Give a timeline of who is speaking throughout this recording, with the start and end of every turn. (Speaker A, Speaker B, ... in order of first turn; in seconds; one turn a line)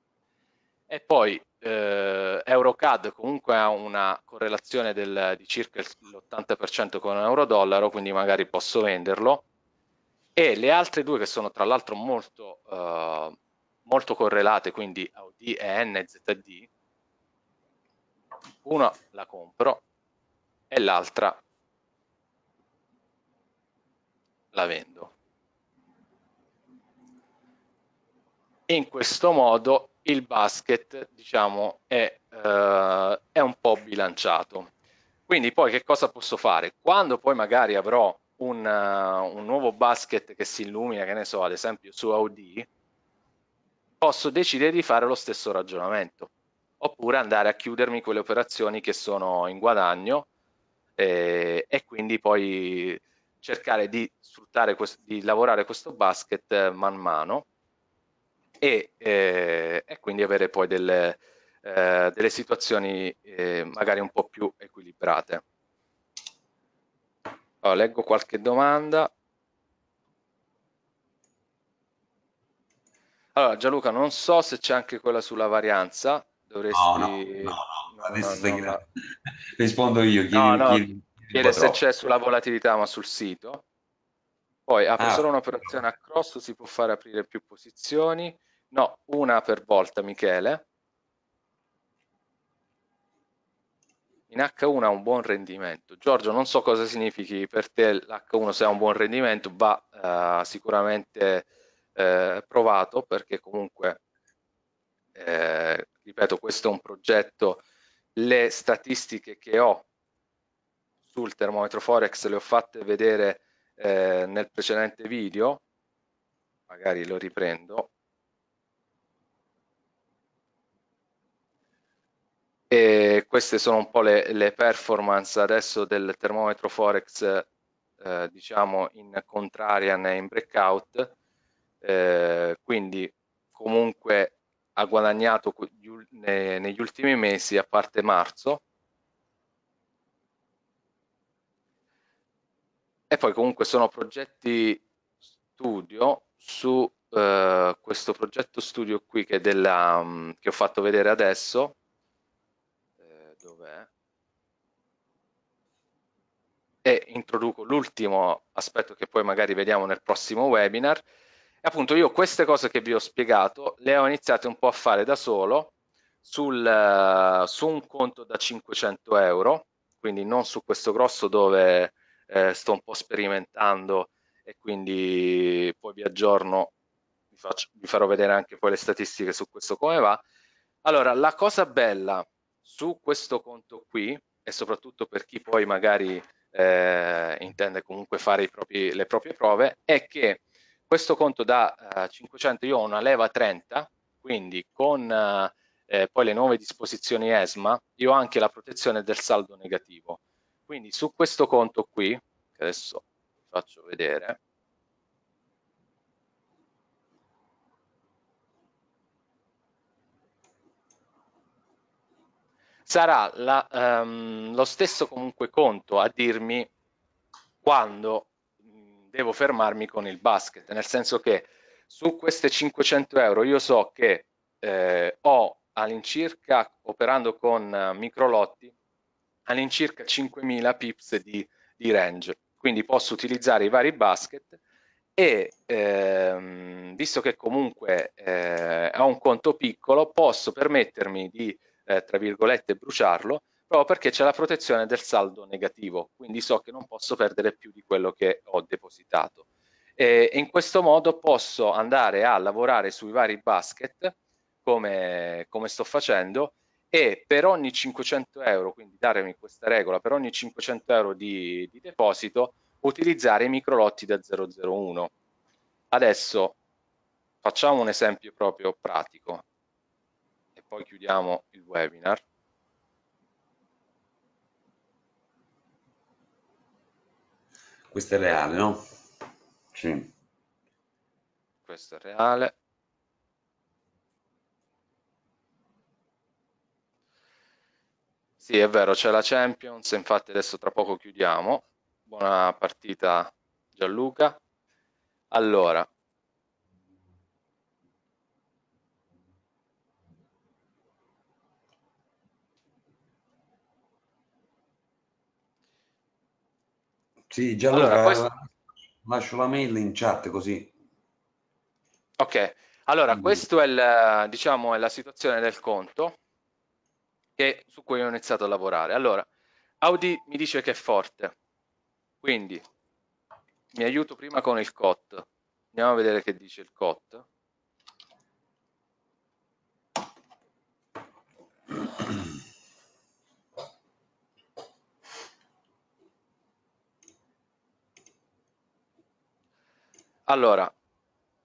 Speaker A: 0.9-9.4
Speaker A: 10.3-16.7
Speaker A: 18.6-19.8
Speaker A: 20.7-21.4
Speaker A: 24.5-25.1
Speaker A: 28.7-34.7
Speaker A: 35.3-42.7
Speaker A: 44.0-50.3
Speaker A: 51.0-57.4
Speaker A: 58.6-65.4
Speaker A: 67.6-69.1
Speaker A: 73.3-78.8
Speaker B: 76.7-81.8
Speaker A: 80.3-83.6
Speaker A: 84.7-90.6
Speaker B: 85.0-85.3
Speaker A: 94.3-104.0
Speaker A: 105.1-107.6
Speaker A: 108.2-109.8
Speaker A: 111.1-115.6
Speaker A: 116.7-117.9
Speaker A: 122.7-127.5
Speaker A: 128.0-131.1
Speaker A: 131.8-138.6
Speaker A: 143.1-144.8
Speaker A: 145.6-151.7
Speaker A: 153.0-153.9
Speaker A: 156.8-161.0
Speaker A: 161.6-165.7
Speaker A: 166.2-176.7
Speaker A: 177.3-180.2
Speaker A: 180.8-204.4
Speaker A: 212.9-216.7
Speaker A: 217.6-218.3
Speaker A: 219.1-228.7
Speaker A: 229.5-234.6
Speaker A: 235.2-249.4
Speaker A: 250.0-265.1
Speaker A: 265.9-266.6
Speaker A: 267.4-269.4
Speaker A: 270.6-272.2
Speaker B: 277.9-278.9
Speaker B: 279.7-280.1
Speaker A: 281.7-282.5
Speaker A: 288.4-294.4
Speaker A: 295.3-295.9
Speaker B: 307.3-308.5
Speaker A: 307.7-308.2
Speaker B: 309.0-310.7
Speaker A: 312.2-316.1
Speaker B: 313.1-313.4
Speaker A: 317.4-319.3
Speaker A: 319.8-321.3
Speaker A: 322.2-322.6
Speaker A: 323.7-327.2
Speaker A: 340.3-340.7